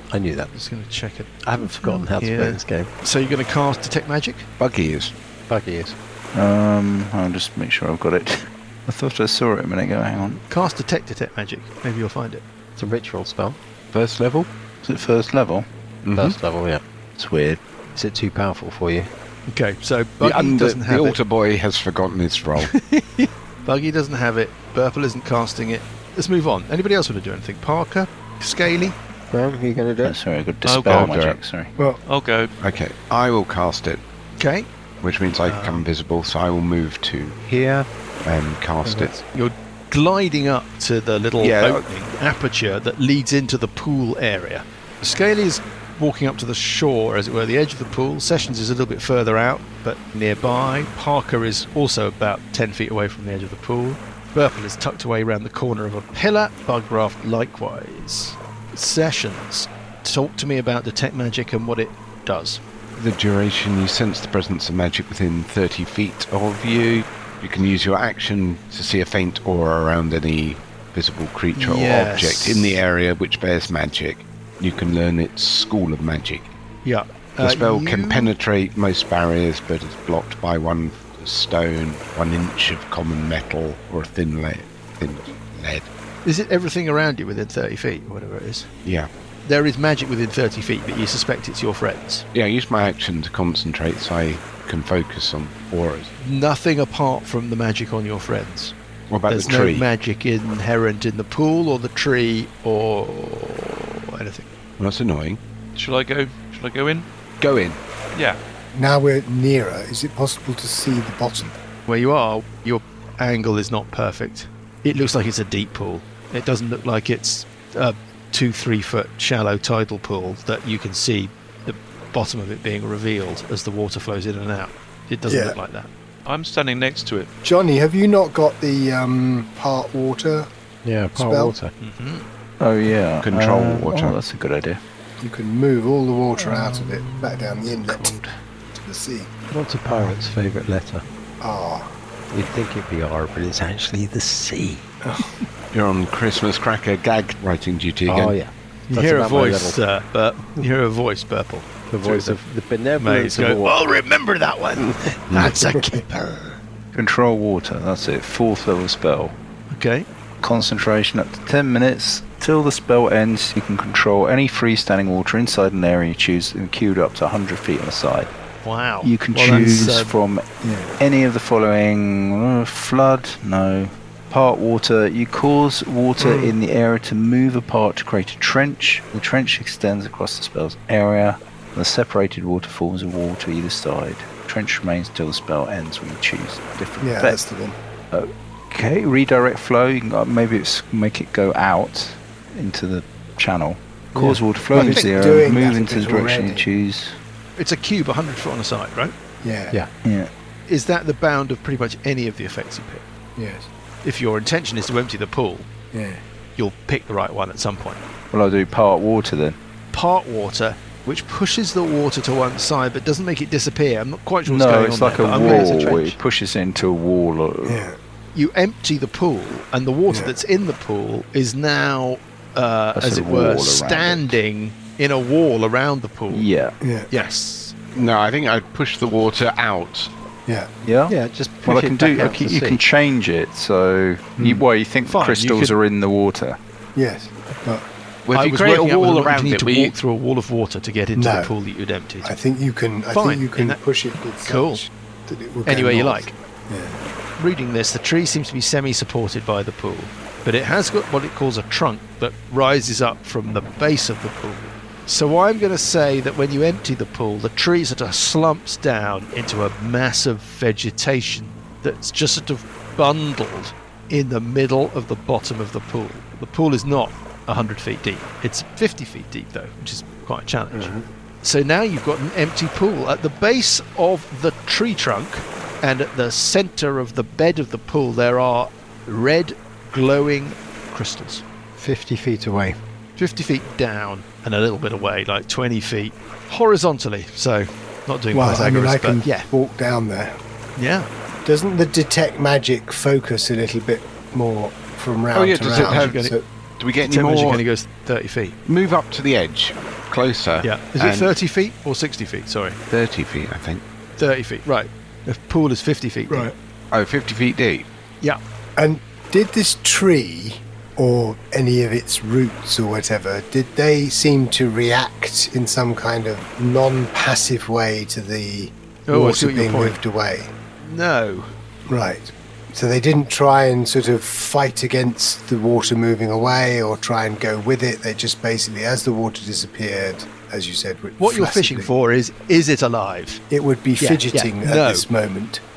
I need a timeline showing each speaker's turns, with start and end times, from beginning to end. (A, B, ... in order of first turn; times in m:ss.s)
0:00.1-0:00.5 A
0:00.5-0:04.5 B
0:01.4-0:02.9 A
0:04.6-0:05.1 C
0:05.5-0:06.0 A
0:06.3-0:10.4 D
0:10.5-0:12.4 B
0:12.8-0:13.6 A
0:13.9-0:14.5 C
0:14.8-0:15.7 D
0:16.0-0:16.4 C
0:16.2-0:16.8 A
0:17.2-0:17.6 D
0:18.0-0:19.1 A
0:19.5-0:21.2 B
0:20.2-0:22.7 C
0:22.6-0:29.0 B
0:29.3-0:30.2 A
0:30.0-0:31.7 D
0:30.6-0:31.3 E
0:30.9-0:31.4 C
0:32.0-0:32.5 E
0:32.6-0:34.0 C
0:34.4-0:34.7 B
0:35.0-0:37.4 C
0:35.4-0:35.9 B
0:37.5-0:37.9 A
0:38.2-0:39.2 C
0:39.3-1:02.6 B
0:41.4-0:41.8 C
1:03.0-1:16.5 C
1:11.5-1:12.8 B
1:16.8-1:18.4 B
1:17.4-1:25.9 C
1:26.2-1:28.7 B
1:28.8-1:29.1 C
1:29.5-1:32.2 B
1:32.3-1:36.1 C
1:36.2-1:38.7 B
1:39.1-1:39.9 C
1:39.3-1:44.5 B
1:44.8-1:45.4 C
1:45.8-1:47.1 E
1:47.4-1:47.8 C
1:48.1-1:48.4 E
1:48.7-1:51.5 F
1:51.9-2:05.9 B
2:05.3-2:05.6 F
2:06.2-2:07.3 E
2:07.4-2:10.5 F
2:10.8-2:11.7 A
2:11.2-2:11.5 F
2:11.8-2:12.3 B
2:12.6-2:14.8 D
2:13.2-2:14.2 C
2:15.2-2:18.2 F
2:16.4-2:18.3 D
2:18.7-2:19.3 F
2:19.5-2:21.0 A
2:21.4-2:21.9 F
2:22.3-2:24.8 A
2:25.0-2:25.4 F
2:25.7-2:28.4 C
2:28.1-2:29.8 A
2:28.9-2:32.4 B
2:31.9-2:33.8 A
2:33.0-2:36.3 B
2:34.8-2:36.0 A
2:36.9-2:39.4 D
2:39.7-2:40.1 B
2:40.4-2:48.3 D
2:48.6-2:50.1 B
2:49.0-2:50.4 D
2:50.6-2:50.9 F
2:51.0-3:07.4 D
2:56.2-2:56.6 F
3:07.0-3:07.8 F
3:08.1-3:17.2 D
3:14.2-3:16.7 F
3:14.2-3:15.0 A
3:17.6-3:19.1 B
3:19.4-3:19.8 F
3:20.0-3:20.3 D
3:20.7-3:23.0 B
3:23.4-3:23.7 F
3:24.0-3:25.7 B
3:25.9-3:26.2 F
3:26.6-3:28.0 B
3:28.3-3:29.6 D
3:29.9-3:35.9 B
3:34.5-3:37.8 D
3:35.3-3:36.2 A
3:37.6-3:38.0 F
3:38.4-3:46.4 B
3:43.0-3:44.4 D
3:46.3-3:46.8 D
3:46.8-3:47.1 F
3:47.1-3:47.8 B
3:47.9-3:50.1 C
3:50.8-3:56.6 D
3:51.1-3:52.8 A
3:55.0-3:55.8 B
3:57.0-3:57.9 F
3:58.2-4:00.0 C
3:58.3-4:02.3 B
4:01.2-4:01.5 F
4:02.2-4:07.0 F
4:03.1-4:03.8 B
4:04.4-4:04.8 B
4:05.6-4:06.3 B
4:07.4-4:41.4 B
4:41.8-4:42.8 A
4:43.2-4:49.5 B
4:48.3-4:50.4 F
4:50.8-4:51.1 B
4:51.4-4:56.4 F
4:55.3-4:56.3 C
4:55.6-4:56.4 B
4:56.8-4:57.6 C
4:57.0-4:58.6 B
4:58.7-5:01.4 C
5:00.6-5:02.8 B
5:02.9-5:03.8 C
5:04.2-5:06.5 B
5:06.9-5:07.9 C
5:08.8-5:20.5 F
5:19.1-5:20.0 B
5:20.8-5:21.5 B
5:21.9-5:31.9 F
5:31.2-5:33.4 B
5:33.5-5:35.6 F
5:34.0-5:35.1 B